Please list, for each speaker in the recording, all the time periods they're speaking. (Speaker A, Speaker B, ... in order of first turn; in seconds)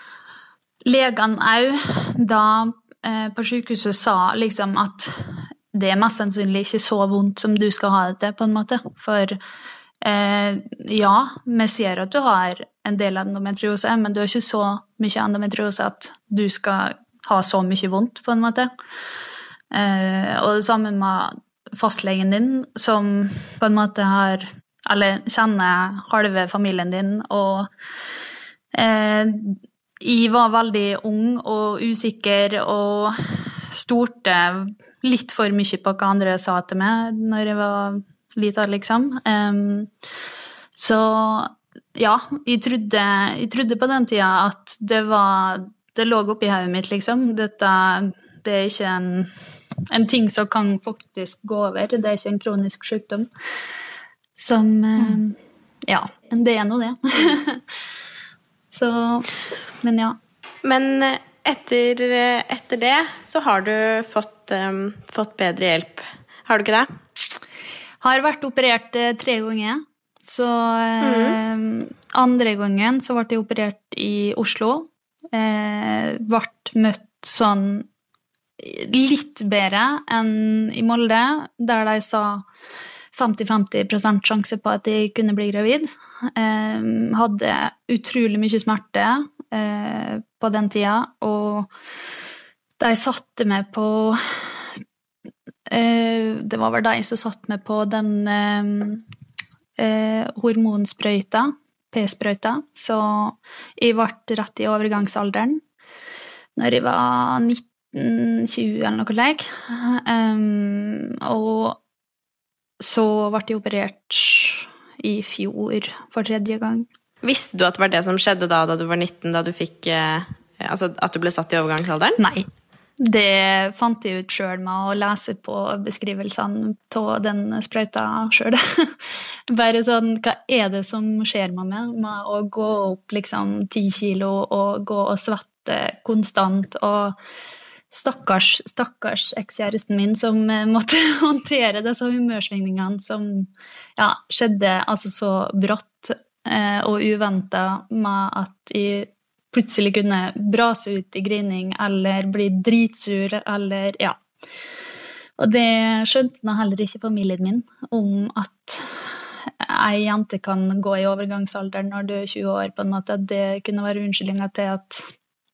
Speaker A: 0.8-9.4, 10.0-18.7, 19.7-27.7, 28.7-39.9, 40.8-49.3, 49.9-53.3, 54.4-57.6, 58.7-60.2, 68.0-77.9, 78.6-82.5, 83.1-91.7, 92.8-94.8, 95.7-99.0, 99.8-105.6, 106.5-111.8, 112.8-116.9, 122.2-122.5, 123.0-137.2, 137.9-154.2, 155.4-159.1, 159.6-165.1
Speaker B: 60.6-66.9, 71.0-71.4, 117.2-122.2